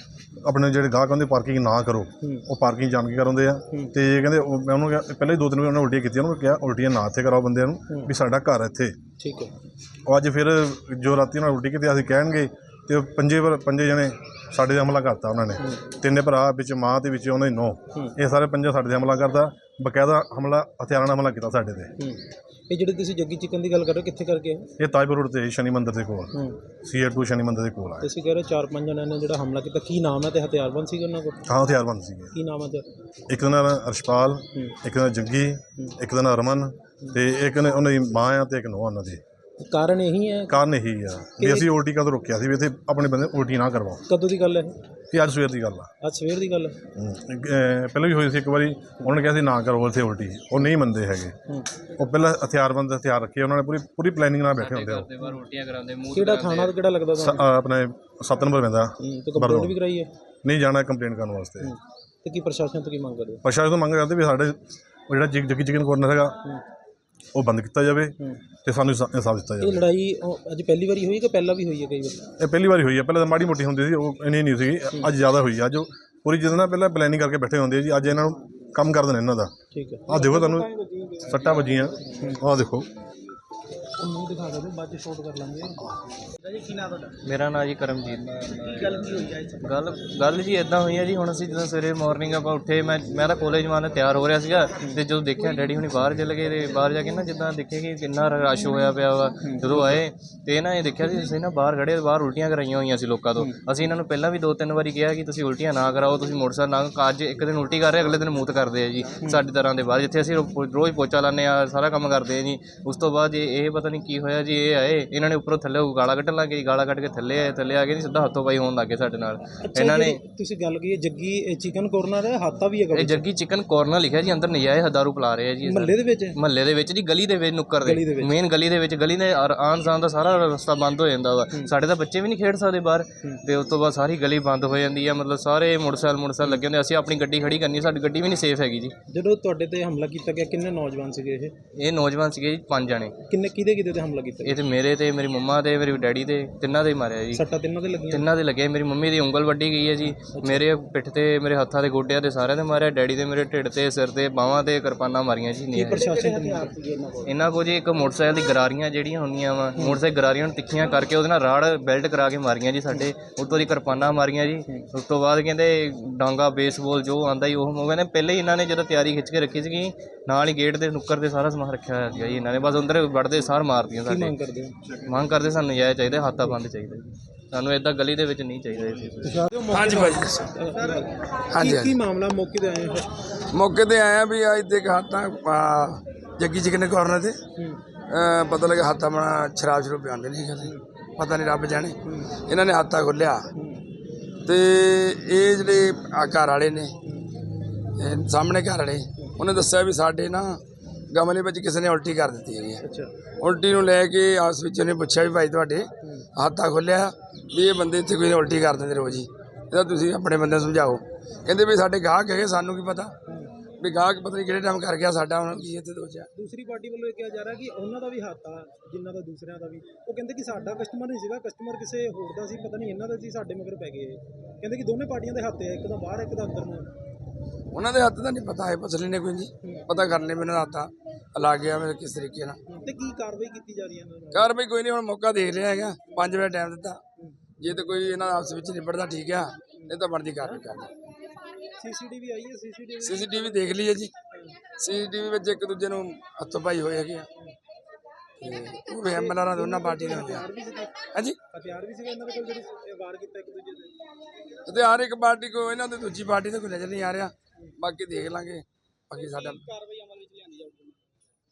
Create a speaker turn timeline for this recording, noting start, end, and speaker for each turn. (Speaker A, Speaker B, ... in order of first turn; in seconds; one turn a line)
Speaker A: 0.4-9.0
Speaker B: 9.2-9.5
Speaker A: 10.1-21.9
Speaker B: 22.0-24.7
Speaker A: 24.8-28.1
Speaker B: 28.0-31.4
Speaker A: 31.5-32.3
Speaker B: 32.3-32.9
Speaker A: 33.3-39.2
Speaker B: 39.6-40.6
Speaker A: 40.5-44.0
Speaker B: 41.4-41.7
Speaker B: 44.1-44.7
Speaker A: 45.1-45.9
Speaker B: 46.0-46.8
Speaker A: 47.0-51.4
Speaker A: 52.0-55.1
Speaker C: 54.6-56.8
Speaker B: 56.1-57.4
Speaker A: 57.2-59.8
Speaker B: 59.0-60.1
Speaker A: 60.4-61.7
Speaker B: 61.6-63.4
Speaker A: 63.4-66.4
Speaker A: 67.3-69.8
Speaker B: 69.6-72.3
Speaker A: 72.4-79.5
Speaker B: 79.7-82.4
Speaker A: 80.1-80.7
Speaker A: 81.3-82.9
Speaker B: 84.0-85.9
Speaker D: 86.4-87.2
Speaker C: 87.2-89.1
Speaker D: 88.4-90.0
Speaker C: 89.6-120.2
Speaker B: 99.4-100.0
Speaker B: 119.6-123.2
Speaker C: 122.9-138.9
Speaker B: 125.7-126.4
Speaker B: 127.8-128.3
Speaker B: 139.1-141.6
Speaker C: 141.8-143.1
Speaker B: 143.3-144.6
Speaker C: 144.4-147.4
Speaker B: 147.3-148.3
Speaker C: 148.1-156.1
Speaker B: 150.2-150.7
Speaker B: 155.7-156.8
Speaker D: 156.3-157.2
Speaker C: 157.2-174.3
Speaker B: 174.1-174.8
Speaker C: 175.1-179.4
Speaker B: 179.2-183.2
Speaker E: 179.7-180.4
Speaker D: 180.8-181.1
Speaker E: 181.5-181.9
Speaker E: 183.5-187.4
Speaker E: 188.1-192.0
Speaker B: 192.1-192.3
Speaker E: 192.5-193.5
Speaker B: 193.6-193.8
Speaker E: 194.5-196.9
Speaker E: 198.0-202.8
Speaker B: 202.8-203.1
Speaker E: 203.4-213.1
Speaker E: 213.8-216.3
Speaker B: 216.3-226.9
Speaker E: 227.7-232.6
Speaker B: 229.6-229.9
Speaker B: 232.7-234.5
Speaker E: 234.3-237.0
Speaker E: 237.6-240.9
Speaker B: 241.8-243.7
Speaker E: 243.0-244.1
Speaker E: 244.8-247.3
Speaker E: 248.4-250.4
Speaker B: 249.0-254.0
Speaker E: 254.7-259.6
Speaker B: 259.4-260.9